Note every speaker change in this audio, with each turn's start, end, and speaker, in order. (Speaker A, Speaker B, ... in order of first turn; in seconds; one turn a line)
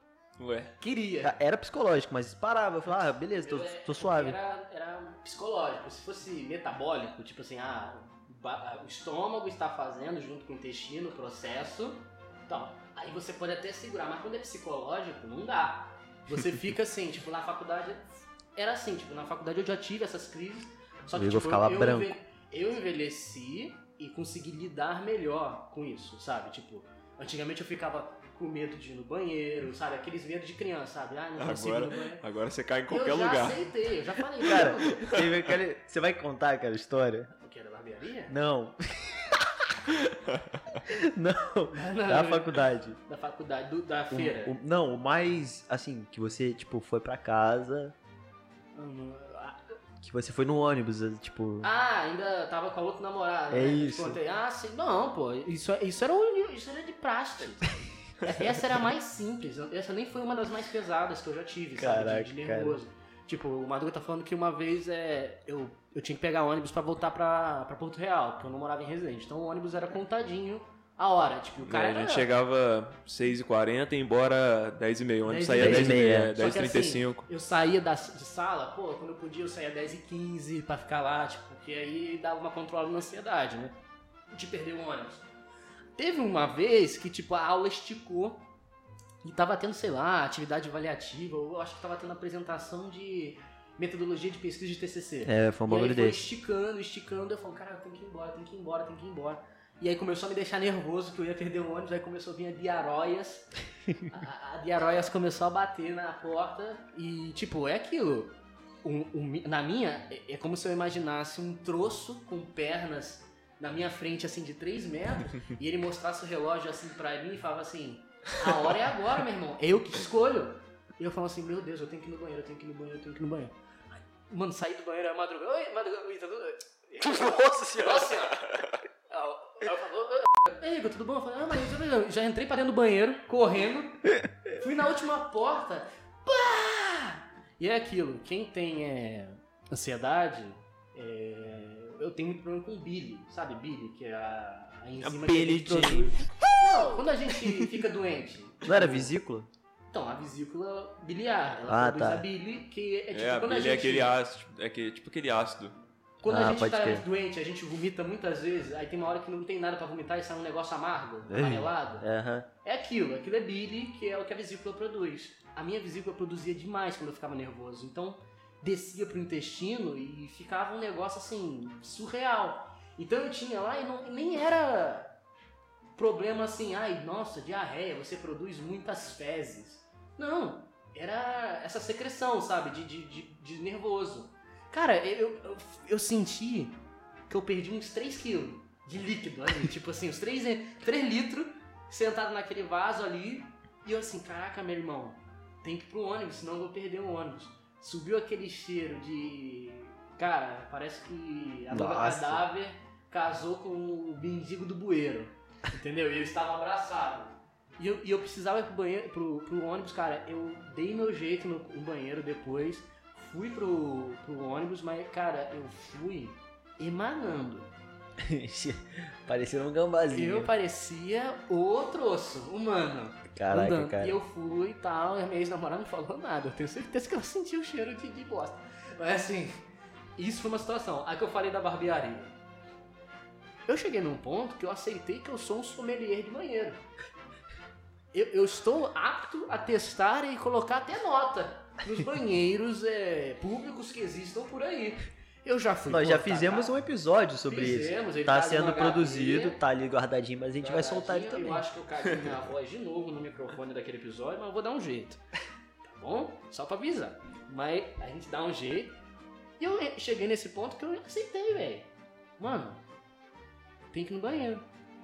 Speaker A: 0.4-0.7
Speaker B: 0.8-1.4
Speaker C: 1.2-4.4
Speaker B: 3.0-32.2
Speaker C: 21.1-22.1
Speaker A: 31.4-33.7
Speaker B: 32.9-35.1
Speaker C: 34.4-37.3
Speaker A: 34.8-35.5
Speaker B: 37.3-38.3
Speaker C: 38.3-39.9
Speaker C: 40.9-43.0
Speaker B: 41.7-44.5
Speaker C: 44.1-47.9
Speaker B: 48.7-49.6
Speaker C: 50.0-51.7
Speaker B: 51.6-72.3
Speaker C: 53.5-54.2
Speaker C: 61.8-62.8
Speaker A: 71.6-77.2
Speaker B: 75.2-83.8
Speaker C: 75.5-76.3
Speaker B: 84.3-85.2
Speaker B: 86.0-88.5
Speaker B: 89.2-103.5
Speaker C: 95.2-96.2
Speaker B: 104.0-128.4
Speaker C: 127.0-128.1
Speaker B: 129.1-149.1
Speaker A: 145.0-146.1
Speaker C: 145.5-146.1
Speaker C: 148.6-149.5
Speaker B: 149.9-154.1
Speaker C: 151.7-152.2
Speaker A: 153.1-155.8
Speaker C: 156.2-157.1
Speaker B: 156.2-162.1
Speaker C: 161.3-162.5
Speaker B: 162.6-175.1
Speaker B: 176.0-217.7
Speaker C: 201.7-202.4
Speaker C: 218.2-220.5
Speaker B: 220.1-232.3
Speaker C: 223.3-224.2
Speaker B: 233.7-236.8
Speaker B: 238.1-246.7
Speaker C: 245.9-251.6
Speaker B: 247.5-249.6
Speaker B: 250.6-255.2
Speaker B: 255.8-259.0
Speaker B: 259.6-262.8
Speaker B: 263.9-264.6